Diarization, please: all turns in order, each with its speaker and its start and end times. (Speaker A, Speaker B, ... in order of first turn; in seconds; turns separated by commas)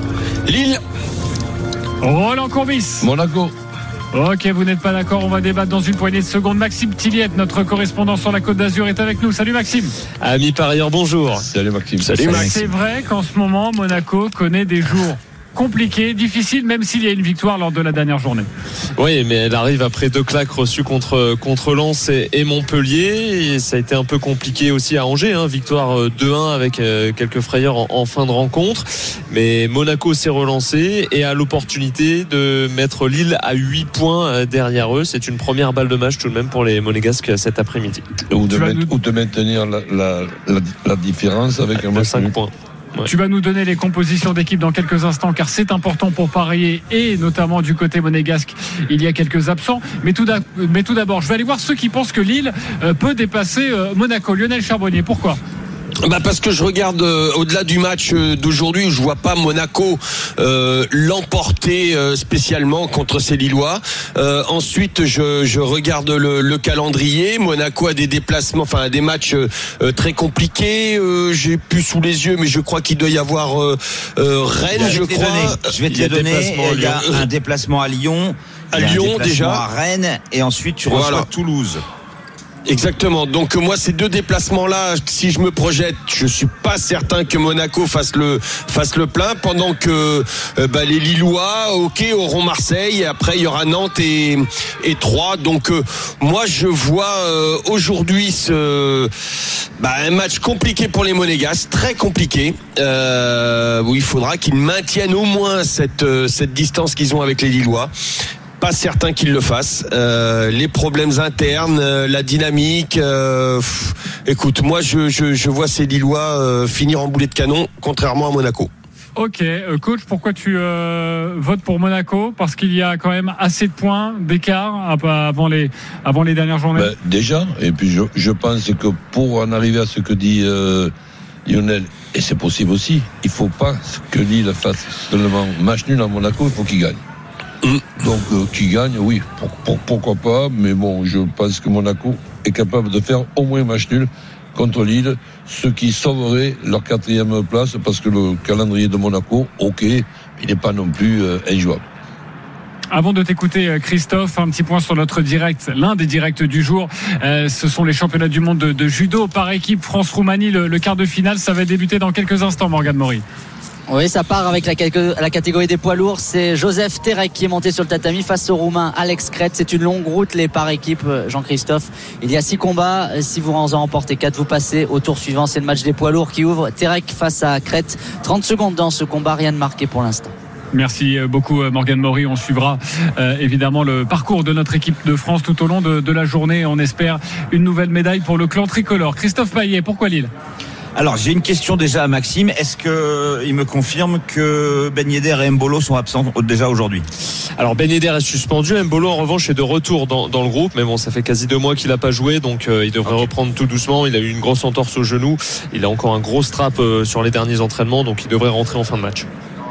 Speaker A: 0.5-0.8, Speaker B: 2.0-3.1, Speaker C: 3.0-3.5, Speaker B: 4.1-9.9, Speaker D: 10.2-11.4, Speaker C: 11.3-12.7, Speaker D: 12.0-12.5, Speaker A: 12.2-12.5, Speaker B: 12.3-18.5, Speaker D: 19.0-38.0, Speaker C: 38.3-42.3, Speaker B: 38.5-38.9, Speaker D: 41.9-43.1, Speaker B: 43.0-55.4, Speaker A: 56.0-77.3, Speaker E: 74.7-81.8, Speaker A: 78.7-79.6, Speaker A: 80.9-81.3, Speaker A: 82.7-99.1, Speaker A: 99.8-107.9, Speaker A: 108.6-118.7, Speaker B: 119.2-126.9, Speaker C: 126.7-130.9, Speaker C: 131.4-137.0, Speaker A: 137.6-137.9, Speaker C: 138.0-151.8, Speaker B: 152.9-163.2, Speaker F: 163.9-180.3, Speaker B: 180.7-190.3, Speaker E: 190.9-197.0, Speaker D: 197.6-209.3